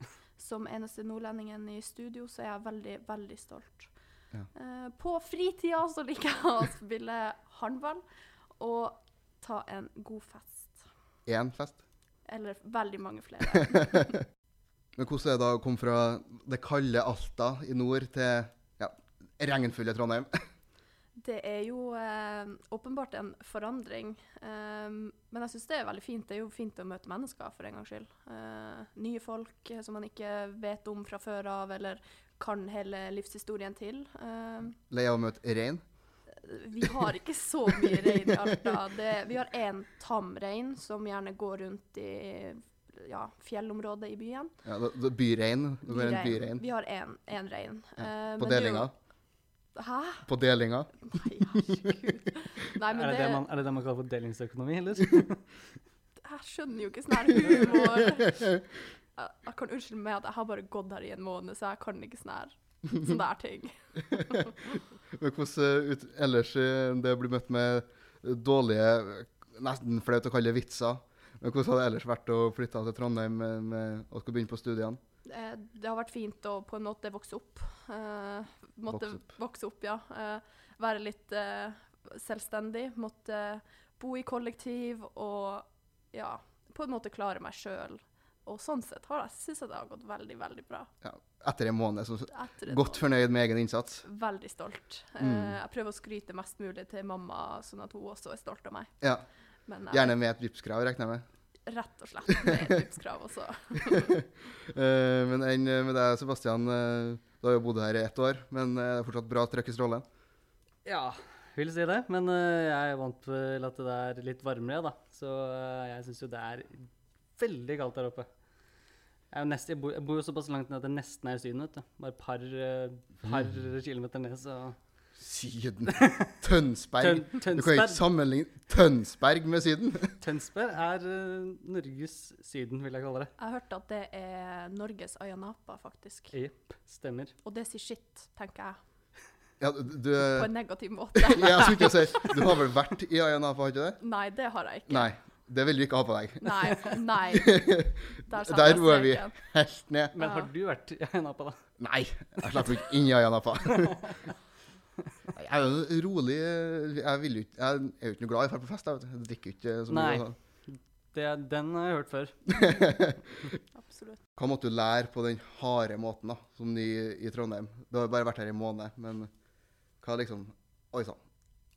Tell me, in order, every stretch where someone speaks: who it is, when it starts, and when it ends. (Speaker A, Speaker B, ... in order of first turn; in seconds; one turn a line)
Speaker A: 0.4-3.9
Speaker A: 4.5-8.0
Speaker A: 8.6-10.8
Speaker B: 11.3-11.8
Speaker A: 12.3-14.1
Speaker B: 13.8-14.1
Speaker B: 14.9-20.3
Speaker A: 21.2-34.8
Speaker B: 34.9-35.8
Speaker A: 36.3-44.5
Speaker B: 37.8-38.5
Speaker B: 44.6-46.6
Speaker A: 45.9-48.9
Speaker B: 48.0-48.9
Speaker A: 49.8-50.2
Speaker B: 50.3-51.0
Speaker A: 51.0-53.4
Speaker C: 52.9-55.4
Speaker A: 56.2-58.5
Speaker B: 57.5-58.5
Speaker A: 59.1-64.5
Speaker B: 64.1-75.0
Speaker A: 75.3-90.9
Speaker B: 78.9-79.2
Speaker B: 91.0-94.0
Speaker A: 92.3-93.0
Speaker A: 94.0-98.9
Speaker B: 95.2-95.5
Speaker A: 99.7-100.1
Speaker B: 99.9-101.2
Speaker A: 101.7-104.1
Speaker B: 103.8-110.0
Speaker C: 110.8-116.9
Speaker C: 117.4-118.3
Speaker C: 119.3-124.8
Speaker B: 125.2-130.2
Speaker C: 125.9-126.3
Speaker C: 127.0-128.0
Speaker C: 130.2-133.3
Speaker A: 133.4-136.3
Speaker C: 136.3-137.3
Speaker A: 137.4-138.8
Speaker B: 139.6-140.5
Speaker A: 140.3-142.5
Speaker B: 141.1-144.0
Speaker A: 144.0-145.1
Speaker B: 144.9-150.1
Speaker A: 146.4-147.7
Speaker A: 148.3-149.3
Speaker C: 150.1-151.6
Speaker A: 150.2-150.5
Speaker B: 151.8-154.1
Speaker B: 155.3-160.3
Speaker C: 159.9-162.8
Speaker B: 162.5-163.2
Speaker A: 163.8-164.2
Speaker B: 164.4-169.3
Speaker B: 170.0-171.2